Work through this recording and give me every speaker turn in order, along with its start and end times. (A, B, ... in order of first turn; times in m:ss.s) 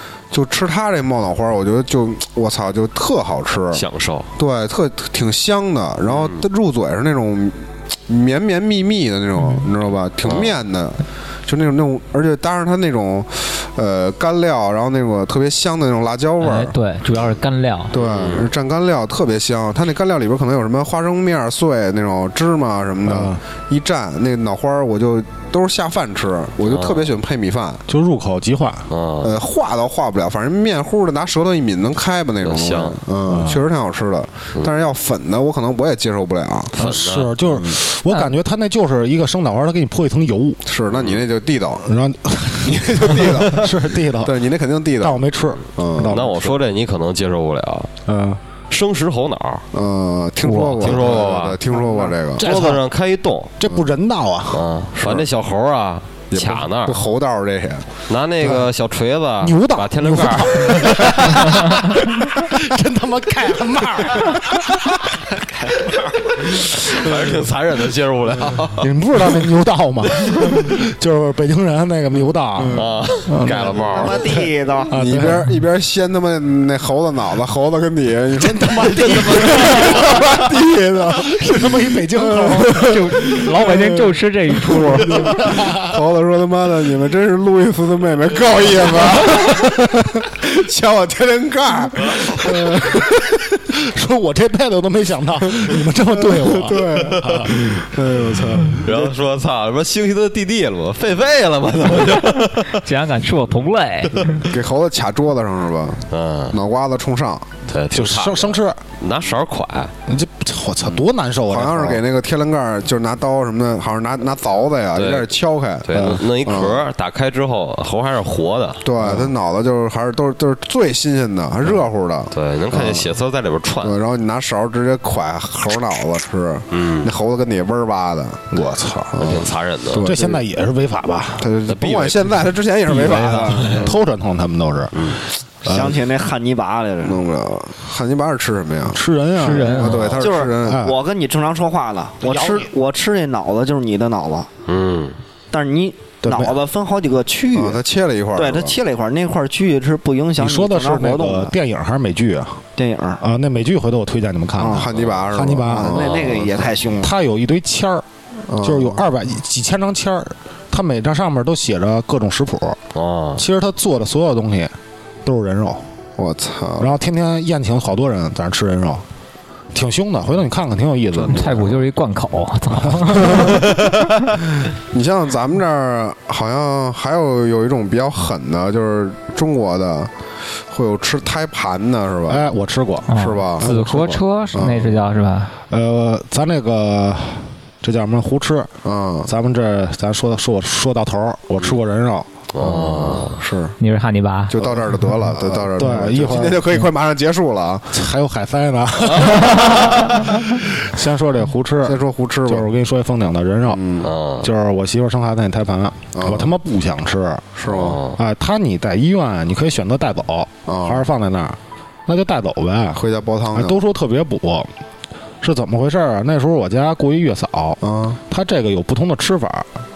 0:00.3-0:03.8 A
0:03.7-0:04.3 B
0:04.4-0:16.7 A
0:06.1-0:06.4 B
0:10.2-0:10.6 B
0:16.4-0:18.0 C
0:17.9-0:27.8 A
0:17.9-0:18.5 B
0:23.1-0:23.4 D
0:26.6-0:27.1 B
0:27.9-0:28.9 D
0:28.9-0:29.3 B
0:29.2-0:36.8 A
0:32.4-0:33.0 B
0:33.3-0:33.6 D
0:36.8-0:40.6 D
0:36.8-0:37.6 B
0:40.7-0:41.8 A
0:40.9-0:41.2 B
0:41.8-0:44.5 D
0:42.6-0:43.7 A
0:44.2-0:45.2 A
0:45.0-0:46.6 D
0:45.8-0:46.1 A
0:46.1-0:47.9 B
0:48.1-0:48.4 D
0:48.7-0:49.6 B
0:49.7-0:52.4 A
0:50.4-0:51.1 D
0:50.8-0:51.6 B
0:52.4-0:52.8 D
0:52.4-0:53.6 B
0:53.6-0:54.6 D
0:54.5-0:57.0 B
0:55.0-0:55.2 A
0:56.3-0:57.9 A
0:58.1-1:01.4 B
0:59.4-1:05.0 D
1:05.4-1:06.2 E
1:06.4-1:08.9 B
1:07.0-1:07.3 A
1:08.8-1:15.6 D
1:10.2-1:10.7 B
1:12.6-1:12.9 A
1:12.7-1:14.2 B
1:13.8-1:15.0 E
1:14.9-1:24.1 A
1:18.4-1:20.5 D
1:21.1-1:23.1 D
1:22.7-1:25.3 C
1:25.0-1:33.2 A
1:25.0-1:26.0 D
1:32.4-1:33.0 D
1:33.7-1:37.8 D
1:36.2-1:39.2 A
1:38.5-1:38.7 D
1:38.8-1:42.8 B
1:42.7-1:44.4 C
1:44.4-1:47.5 A
1:46.1-1:46.6 B
1:47.7-1:49.9 B
1:47.9-1:48.8 D
1:50.1-1:52.0 D
1:51.5-1:56.8 A
1:55.0-1:55.3 B
1:55.8-1:59.3 B
1:55.9-1:56.2 D
1:58.8-2:03.1 A
2:01.7-2:04.0 B
2:03.8-2:08.5 A
2:06.7-2:07.1 B
2:08.5-2:09.2 D
2:09.1-2:10.4 A
2:09.2-2:10.1 B
2:10.0-2:11.5 D
2:11.4-2:14.0 A
2:11.7-2:12.5 B
2:12.9-2:16.0 D
2:13.5-2:13.9 B
2:15.0-2:15.2 B
2:15.6-2:17.2 E
2:17.0-2:20.9 A
2:18.9-2:21.0 D
2:19.4-2:20.0 C
2:19.8-2:20.2 B
2:20.2-2:24.5 E
2:22.2-2:22.7 D
2:24.7-2:25.2 B
2:25.5-2:27.8 E
2:26.2-2:26.6 D
2:27.5-2:28.8 A
2:28.4-2:31.6 E
2:30.4-2:32.6 D
2:32.8-2:33.2 E
2:33.2-2:36.0 D
2:34.6-2:34.9 E
2:34.6-2:36.7 A
2:34.9-2:35.2 B
2:35.6-2:37.1 E
2:35.9-2:36.5 B
2:37.0-2:38.1 D
2:38.5-2:39.0 A
2:38.6-2:42.8 D
2:42.9-2:43.4 B
2:43.4-2:45.8 D
2:46.2-2:46.9 A
2:46.8-2:49.0 D
2:49.7-2:51.8 D
2:51.3-2:54.3 C
2:52.7-2:53.7 D
2:54.6-3:00.1 A
3:00.7-3:02.5 A
3:02.3-3:04.2 D
3:03.1-3:05.5 C
3:03.1-3:03.7 A
3:04.6-3:05.0 A
3:05.7-3:08.7 D
3:08.8-3:09.3 A
3:09.3-3:12.3 D
3:12.5-3:13.4 B
3:12.6-3:13.8 A
3:13.8-3:14.6 C
3:14.5-3:18.0 A
3:15.3-3:16.8 D
3:17.9-3:23.8 D
3:21.8-3:22.7 A
3:23.7-3:24.1 A
3:24.0-3:24.5 B
3:24.4-3:27.5 D
3:26.2-3:26.5 A
3:27.6-3:28.0 A
3:27.7-3:28.2 B
3:28.2-3:33.0 D
3:30.7-3:31.0 A
3:32.9-3:33.8 A
3:33.5-3:34.7 D
3:35.4-3:39.7 D
3:37.8-3:38.2 A